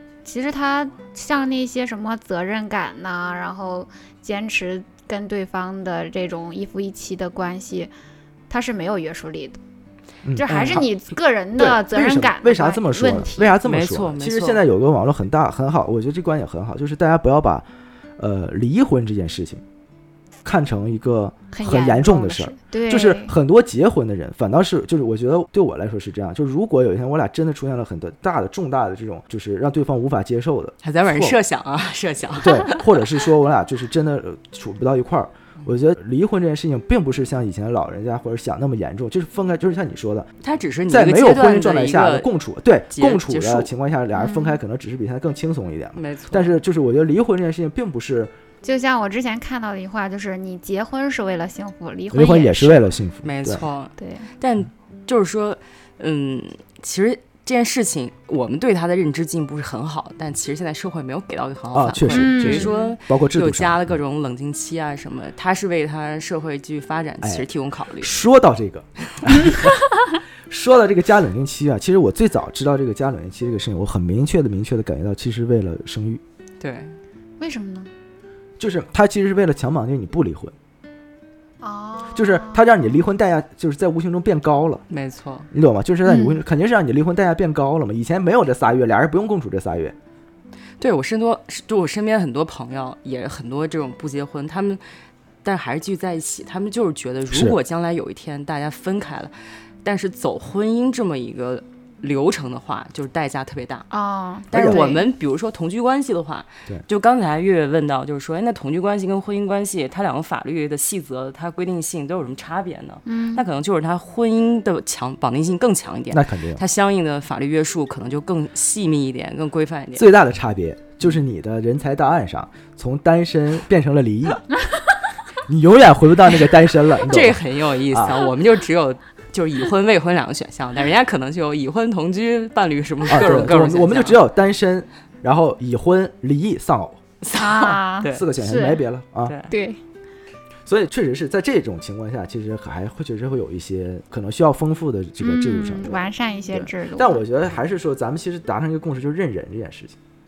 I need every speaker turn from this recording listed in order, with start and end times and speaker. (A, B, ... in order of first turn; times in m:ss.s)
0:00.2-0:07.9 A
0:08.5-0:09.6 A
0:10.2-0:10.8 B
0:10.3-0:13.5 A
0:11.6-0:17.6 B
0:13.6-0:14.6 C
0:18.2-0:19.6 B
0:20.4-0:31.4 B
0:21.5-0:23.3 A
0:30.8-0:33.1 C
0:32.4-0:40.3 B
0:40.4-0:42.3 C
0:40.9-0:48.3 B
0:42.9-0:43.7 C
0:44.1-0:44.6 A
0:46.0-0:46.6 C
0:48.6-0:52.9 A
0:52.1-0:53.6 B
0:53.2-1:08.1 C
0:54.0-0:54.3 A
1:01.7-1:03.9 B
1:02.1-1:02.9 A
1:07.2-1:07.5 B
1:08.0-1:09.8 B
1:10.5-1:16.2 B
1:16.6-1:17.0 C
1:17.4-1:17.9 A
1:18.6-1:20.5 B
1:21.6-1:22.9 A
1:22.1-1:24.8 B
1:24.9-1:25.5 C
1:25.5-1:29.9 B
1:26.0-1:26.4 A
1:30.8-1:34.8 C
1:35.4-1:43.9 C
1:37.3-1:37.6 B
1:43.9-1:45.0 A
1:44.5-2:00.1 C
1:44.5-1:44.9 B
1:53.0-1:53.4 A
1:56.1-1:56.6 B
1:59.9-2:04.4 B
2:05.5-2:08.2 B
2:07.0-2:14.2 C
2:13.1-2:17.0 B
2:17.2-2:18.2 C
2:17.4-2:18.8 A
2:18.1-2:19.3 B
2:19.2-2:19.5 C
2:19.5-2:19.8 A
2:20.6-2:30.0 B
2:25.2-2:27.2 A